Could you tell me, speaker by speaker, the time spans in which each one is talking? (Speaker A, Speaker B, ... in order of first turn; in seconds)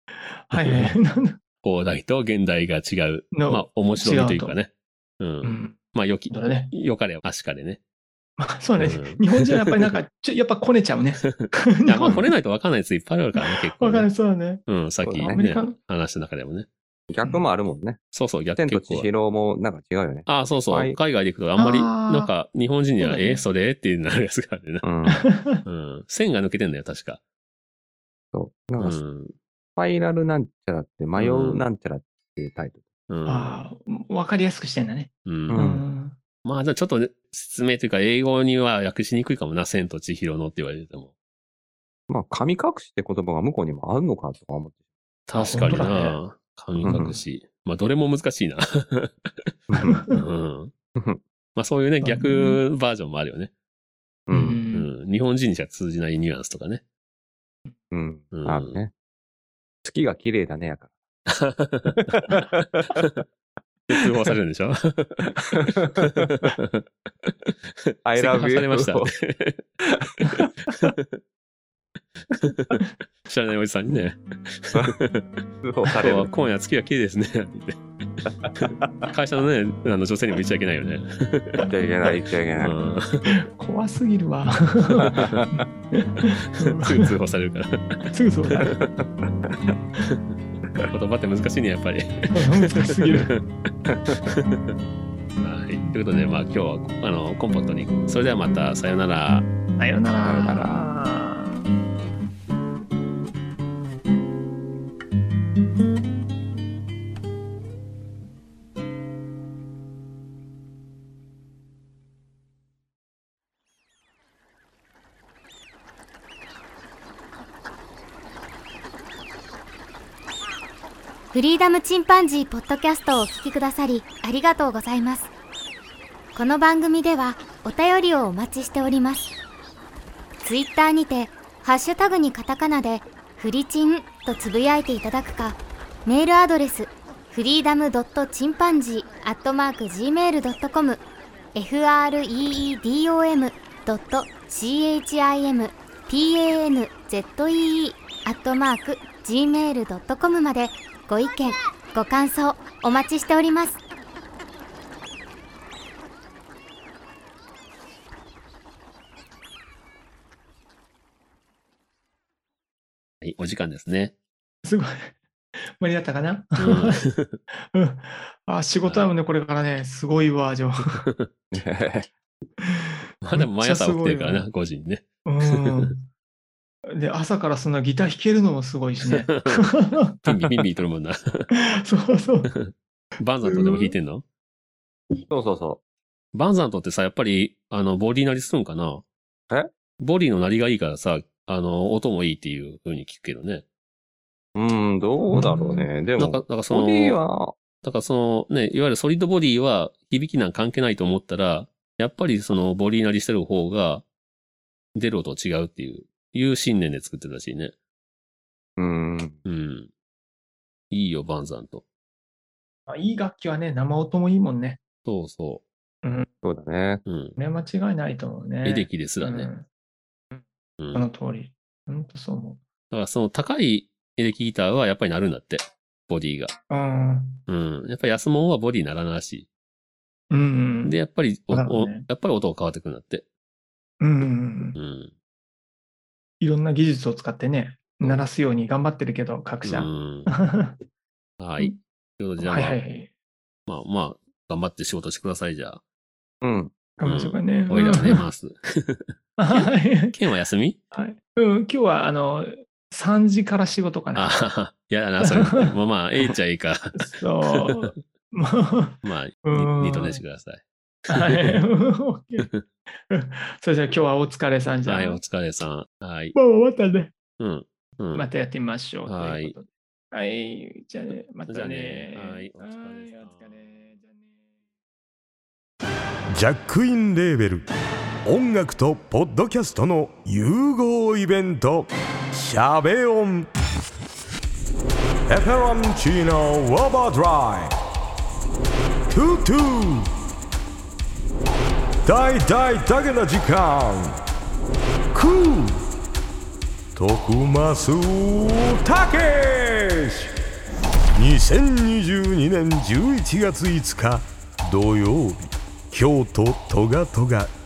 Speaker A: 0.3-1.4, 3.3-4.6, 5.4-6.7, 8.4-12.2, 13.4-14.6, 15.2-15.8, 21.6-22.3, 23.0-23.4, 25.1-25.6, 33.3-36.2, 45.3-46.2, 46.8-47.2, 49.8-50.2, 52.0-52.6, 54.3-54.9, 83.3-87.1, 88.1-88.7, 92.3-93.3, 99.8-101.7, 164.7-165.2, 165.8-167.0, 167.7-171.0, 172.7-174.5, 175.3-176.1, 176.9-180.0, 181.5-182.5, 183.4-183.9, 195.3-195.9, 212.9-214.8, 217.4-219.7, 220.3-222.6, 226.7-227.4, 230.3-231.0, 231.5-232.1, 234.0-234.8, 236.4-240.8, 242.4-243.1, 247.0-248.3, 249.4-250.2, 250.9-254.3, 255.2-255.7, 257.0-260.2, 261.1-262.5, 263.1-265.2, 266.4-267.1, 268.1-274.5
Speaker B: 0.6-0.9, 1.6-7.8, 8.8-9.9, 11.2-14.1, 14.7-16.7, 18.1-19.1, 20.3-24.9, 25.6-27.2, 28.8-29.4, 31.2-31.7, 33.1-33.6, 35.3-35.7, 36.4-41.1, 45.3-50.7, 51.6-53.5, 54.7-56.8, 58.3-58.8, 61.3-62.3, 63.0-63.2, 63.9-69.7, 70.2-71.2, 72.2-75.4, 76.0-81.7, 82.6-83.3, 86.3-88.7, 90.8-93.4, 94.2-94.7, 95.4-99.5, 163.2-164.1, 166.6-167.4, 173.2-175.7, 179.0-179.7, 180.2-181.5, 182.5-184.2, 186.3-189.0, 190.0-193.6, 196.2-197.2, 197.8-204.1, 204.9-207.7, 209.4-209.9, 210.9-211.8, 215.1-215.6, 217.1-217.4, 218.7-219.5, 220.8-221.1, 222.9-226.6, 227.5-229.5, 230.8-233.2, 234.8-235.1, 239.6-240.3, 241.4-242.8, 243.7-245.8, 247.0-250.8, 254.2-258.0, 259.0-260.6, 261.2-261.5, 264.9-266.4, 267.4-268.3, 269.1-269.6, 271.5-273.9
Speaker C: 15.0-15.4, 17.1-18.0, 18.6-21.0, 24.8-25.2, 28.3-29.0, 29.8-32.8, 35.5-35.9, 42.1-44.8, 46.8-47.2, 49.7-50.1, 54.3-54.6, 57.9-58.9, 59.8-60.9, 68.0-69.1, 75.6-76.3, 81.7-82.8, 85.1-85.5, 88.6-89.7, 93.9-94.3, 100.2-100.8, 171.5-172.1, 185.3-185.8, 194.6-197.5, 208.8-209.4, 216.4-217.0, 246.4-246.8
Speaker D: 121.3-125.3, 126.3-129.3, 130.4-141.0, 141.6-153.8
Speaker E: 276.3-277.7, 278.2-283.5, 285.3-287.8, 289.1-290.1, 292.0-294.2, 295.1-295.8, 296.9-300.3, 301.1-307.5